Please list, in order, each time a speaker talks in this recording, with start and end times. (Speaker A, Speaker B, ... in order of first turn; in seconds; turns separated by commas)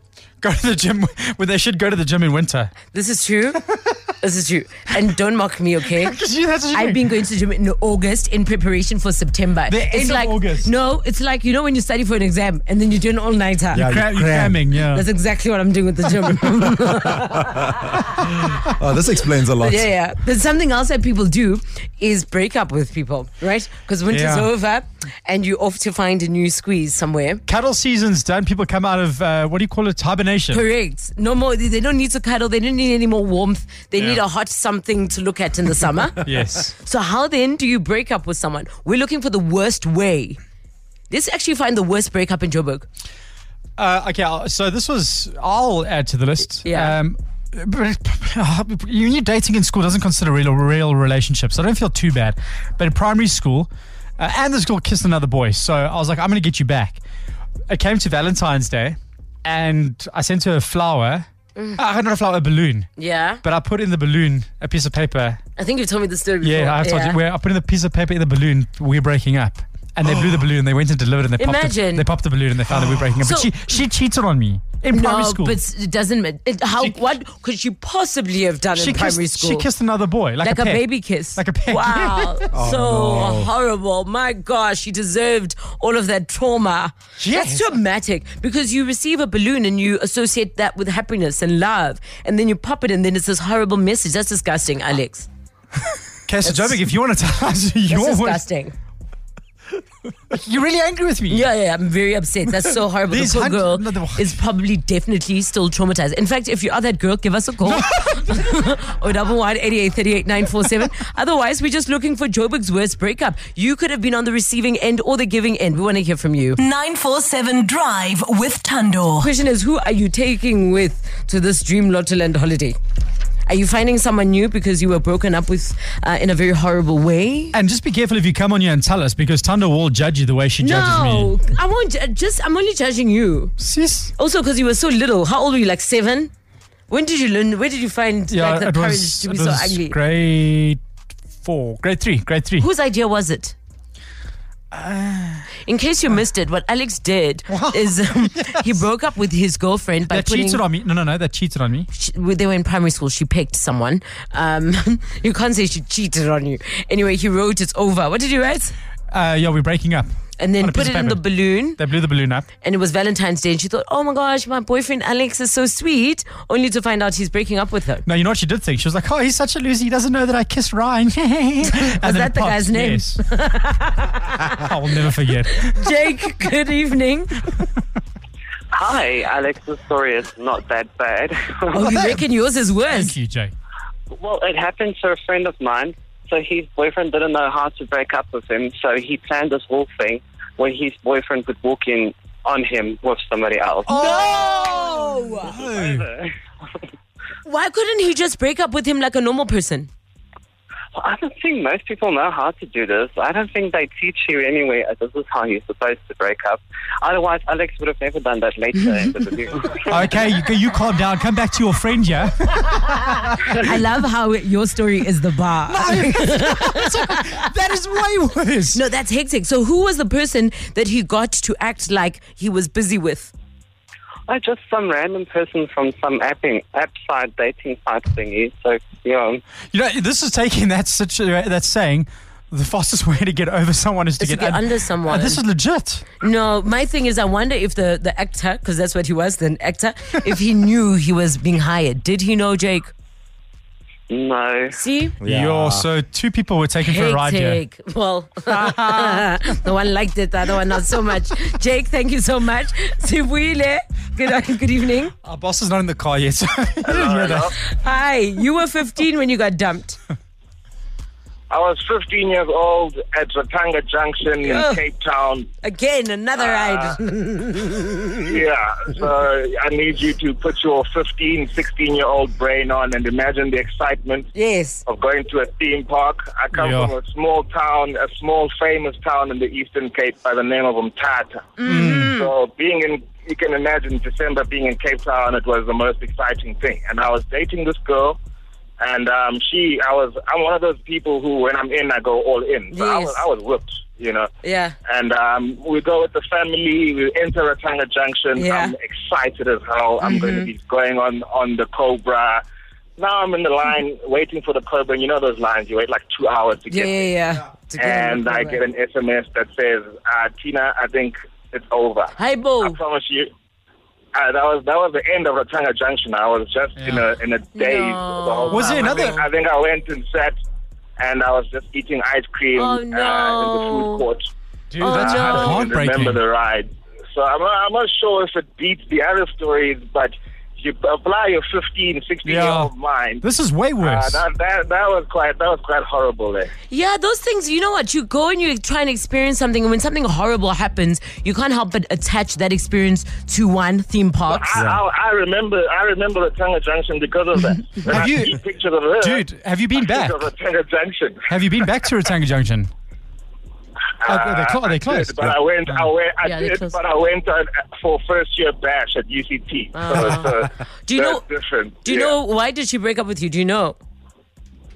Speaker A: 0.4-2.7, Speaker B: 2.9-3.6, Speaker B: 4.2-6.2, Speaker A: 5.9-7.2, Speaker B: 6.7-13.9, Speaker A: 9.7-10.7, Speaker A: 13.7-15.1, Speaker C: 13.8-14.6, Speaker B: 14.9-18.6, Speaker C: 17.5-19.9, Speaker B: 19.2-27.4, Speaker A: 24.1-24.5, Speaker A: 27.5-30.7, Speaker B: 30.5-40.4, Speaker A: 36.2-36.7, Speaker B: 41.1-42.9, Speaker A: 43.8-57.0, Speaker B: 46.6-47.0, Speaker A: 57.7-62.9, Speaker B: 63.0-63.4, Speaker A: 63.4-65.4, Speaker B: 65.6-67.2, Speaker A: 66.4-75.6, Speaker B: 71.4-72.1, Speaker B: 73.2-73.5, Speaker B: 74.9-79.7, Speaker A: 78.8-82.5, Speaker B: 80.4-95.3, Speaker C: 82.5-83.5, Speaker A: 87.2-87.6, Speaker A: 96.3-98.4, Speaker B: 96.5-96.7, Speaker B: 97.9-98.7, Speaker A: 100.2-101.5, Speaker B: 101.3-116.6, Speaker A: 103.1-104.4, Speaker A: 107.6-108.4, Speaker D: 116.6-119.3, Speaker B: 119.2-122.8, Speaker B: 123.5-127.6, Speaker A: 127.5-131.3, Speaker B: 130.6-133.5, Speaker A: 133.6-134.1, Speaker B: 134.2-136.3, Speaker B: 136.9-140.0, Speaker A: 138.3-140.8, Speaker A: 141.4-142.7, Speaker B: 142.6-143.6, Speaker A: 144.7-145.4, Speaker B: 145.7-150.6, Speaker A: 147.5-148.8, Speaker A: 150.1-151.9, Speaker B: 151.9-158.8, Speaker A: 159.1-162.5, Speaker B: 160.4-161.8, Speaker B: 162.6-168.1, Speaker A: 168.1-173.2, Speaker B: 171.7-174.7, Speaker A: 174.6-175.8, Speaker B: 175.5-177.5, Speaker E: 178.7-181.8, Speaker B: 181.7-183.2, Speaker A: 181.8-182.3, Speaker A: 182.9-183.5, Speaker E: 184.1-193.9, Speaker A: 193.9-196.1, Speaker B: 193.9-195.6, Speaker E: 195.5-196.3, Speaker B: 197.4-199.9, Speaker E: 201.0-210.0, Speaker A: 209.9-213.5, Speaker B: 213.4-217.4, Speaker A: 215.7-218.8, Speaker B: 218.7-223.3, Speaker E: 224.3-229.4, Speaker A: 229.7-236.1, Speaker B: 234.2-235.4, Speaker B: 236.2-242.9, Speaker E: 244.1-244.8, Speaker B: 244.8-245.2, Speaker C: 245.2-245.8, Speaker A: 245.2-247.6, Speaker B: 246.8-255.1, Speaker A: 248.5-249.3, Speaker A: 255.2-257.5, Speaker F: 256.8-257.6, Speaker B: 257.6-260.0, Speaker F: 261.5-265.5, Speaker B: 264.4-264.8, Speaker B: 265.6-268.4, Speaker F: 266.4-267.0, Speaker F: 268.3-274.3, Speaker B: 274.4-274.9, Speaker F: 274.9-288.2, Speaker A: 276.5-276.9, Speaker B: 281.6-282.3, Speaker A: 281.6-282.2, Speaker F: 288.8-294.3, Speaker B: 292.7-293.3, Speaker B: 294.4-294.8, Speaker F: 294.9-302.4, Speaker B: 298.4-298.7, Speaker B: 300.0-300.5, Speaker F: 303.0-307.1, Speaker B: 306.7-308.6, Speaker F: 307.8-313.3, Speaker B: 312.2-312.8, Speaker F: 314.1-320.4, Speaker A: 316.8-317.1, Speaker B: 317.6-319.3, Speaker A: 318.5-319.2, Speaker F: 321.0-324.3, Speaker B: 322.6-324.1, Speaker A: 324.7-326.2, Speaker B: 324.8-325.7, Speaker F: 324.9-333.2, Speaker A: 332.2-332.7, Speaker A: 333.2-334.2, Speaker F: 333.8-336.5, Speaker B: 336.7-344.7, Speaker F: 344.3-349.2, Speaker A: 347.9-348.4, Speaker A: 349.0-350.2, Speaker F: 349.8-351.2, Speaker A: 351.3-352.7, Speaker F: 354.0-362.2, Speaker A: 354.1-355.9, Speaker B: 356.2-356.8, Speaker B: 359.8-361.2, Speaker B: 361.8-363.8